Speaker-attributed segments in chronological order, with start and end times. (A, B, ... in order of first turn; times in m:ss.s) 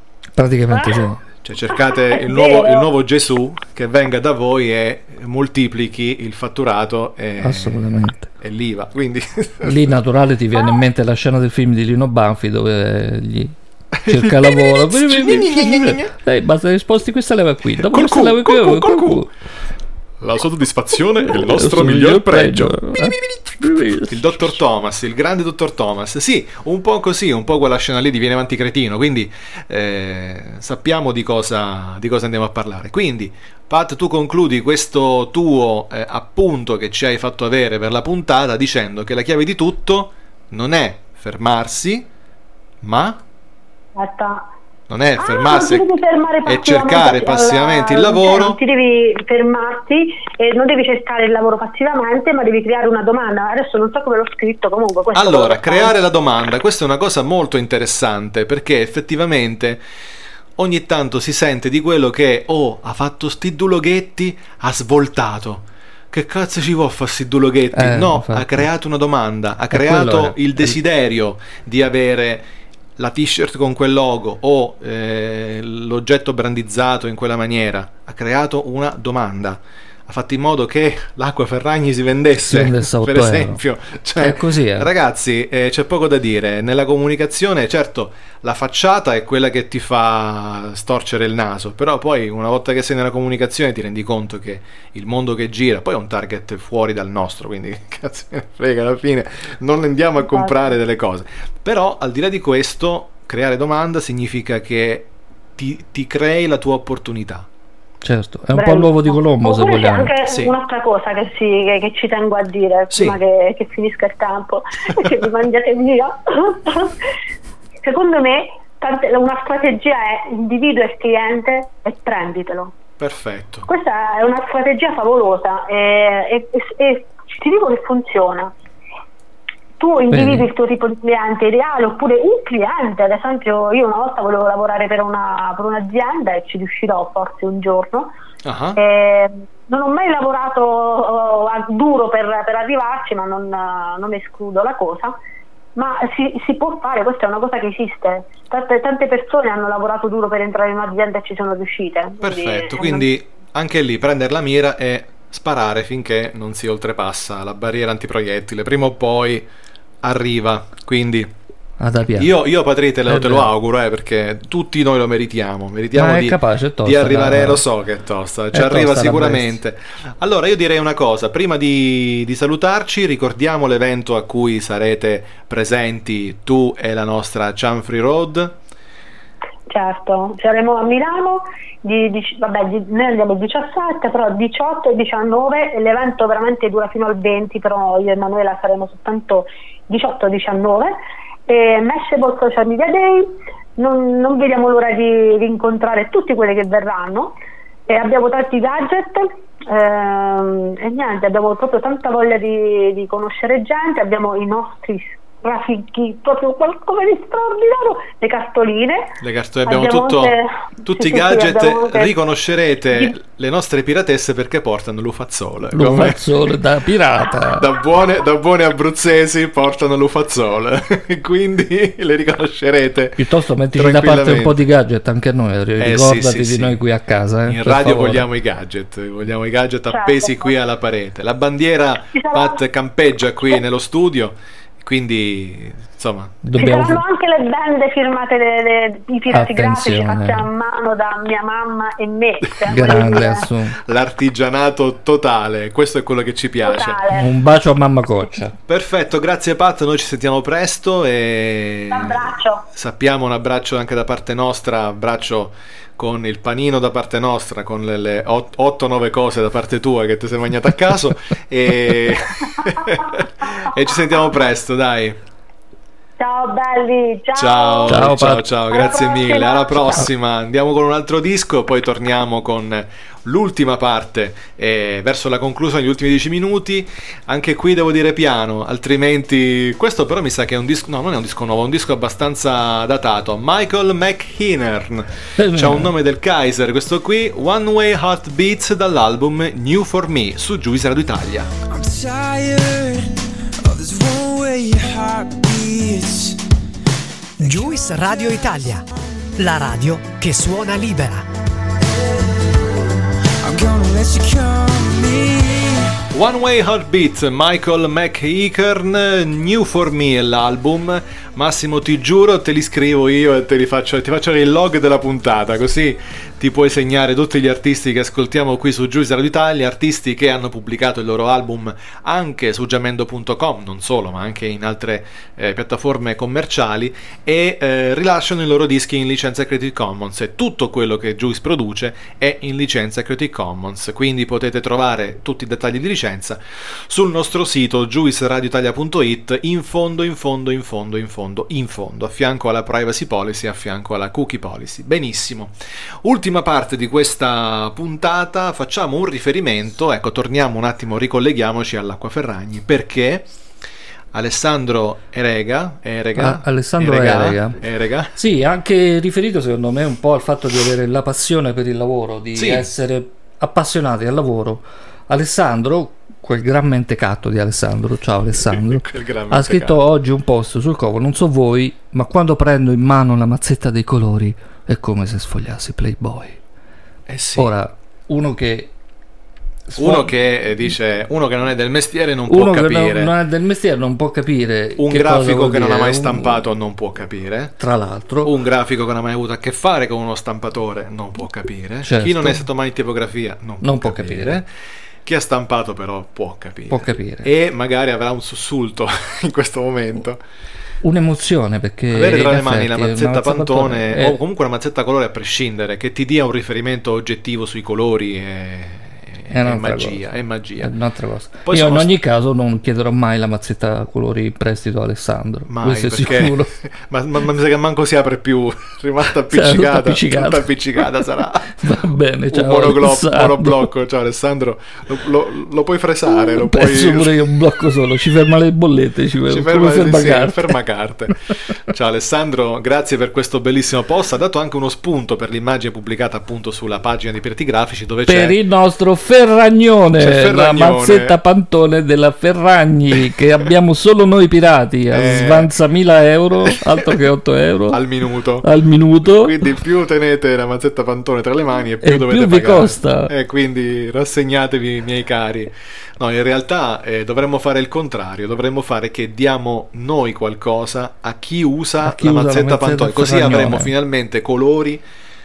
0:00.4-0:01.2 A
0:00.7-0:01.0 B
0:01.4-0:07.8 C
0:01.7-0:02.9 B
0:07.4-0:08.3 A
0:08.4-0:09.9 C
0:09.6-0:19.3 A
0:14.0-0:16.1 C
0:17.8-0:19.3 C
0:20.2-0:42.1 C
0:21.3-0:24.6 A
0:42.8-0:43.2 C
0:44.0-0:44.5 B
0:44.9-0:45.9 C
0:45.2-0:56.0 B
0:46.4-0:48.6 C
0:55.1-0:59.8 C
1:00.6-1:47.5 C
1:07.7-1:08.7 A
1:09.7-1:10.8 A
1:22.4-1:23.6 A
1:24.2-1:24.9 A
1:40.2-1:40.7 B
1:48.0-1:50.1 A
1:48.5-1:57.0 B
1:50.3-1:50.5 C
1:52.9-1:53.2 C
1:57.8-2:02.8 B
2:03.0-2:03.7 C
2:03.7-2:08.5 B
2:09.8-2:18.1 B
2:10.1-2:10.5 A
2:18.4-2:18.8 C
2:18.8-2:25.2 B
2:25.8-2:33.1 B
2:32.2-2:39.5 C
2:40.0-2:41.3 C
2:41.8-2:42.3 A
2:42.2-2:58.6 C
2:43.1-2:43.5 A
2:46.0-2:47.6 A
2:48.5-2:49.6 A
2:59.7-3:10.9 B
3:11.5-3:17.4 B
3:17.9-3:29.2 B
3:29.2-3:36.2 C
3:29.7-3:32.1 B
3:35.7-3:37.7 A
3:37.6-3:43.2 C
3:43.2-3:48.2 A
3:43.8-3:44.6 C
3:45.8-3:46.8 C
3:47.5-3:56.4 C
3:49.9-3:50.6 B
3:52.1-3:52.6 B
3:56.4-3:57.0 A
3:56.6-4:03.4 B
3:59.3-4:00.5 A
4:02.7-4:03.3 C
4:02.7-4:03.8 A
4:03.8-4:07.0 C
4:06.6-4:07.3 B
4:07.1-4:08.6 A
4:08.7-4:25.2 C
4:11.9-4:12.6 B
4:22.6-4:22.9 B
4:26.2-4:28.1 B
4:27.4-4:51.5 C
4:27.9-4:28.5 A
4:28.7-4:30.0 B
4:45.4-4:45.9 A
4:51.7-4:56.4 D
4:57.4-4:58.8 E
4:59.4-5:01.3 E
5:03.4-5:06.0 D
5:06.1-5:53.3 C
5:54.1-5:58.2 C
5:56.2-5:57.6 A
5:58.2-6:16.4 A
6:02.4-6:02.7 C
6:08.4-6:09.8 C
6:17.1-6:17.5 C
6:17.4-6:18.7 A
6:19.7-6:20.1 A
6:19.8-6:23.1 C
6:22.3-6:26.4 A
6:24.8-6:27.6 C
6:27.6-6:28.3 A
6:28.2-6:34.5 C
6:31.8-6:32.4 A
6:33.6-6:34.4 A
6:35.0-6:40.2 C
6:36.7-6:37.3 A
6:40.8-6:44.2 A
6:41.9-6:50.7 C
6:49.3-6:56.5 A
6:51.5-6:51.9 C
6:55.5-7:07.2 C
6:59.3-7:00.5 A
7:01.6-7:03.7 A
7:06.1-7:10.6 A
7:09.3-7:11.2 C
7:11.7-7:18.4 C
7:18.1-7:27.8 A
7:20.0-7:21.2 C
7:24.9-7:25.5 C
7:26.5-7:26.9 C
7:27.7-7:28.5 C
7:28.4-7:29.4 A
7:29.1-7:44.8 C
7:31.8-7:33.1 A
7:41.8-7:43.7 A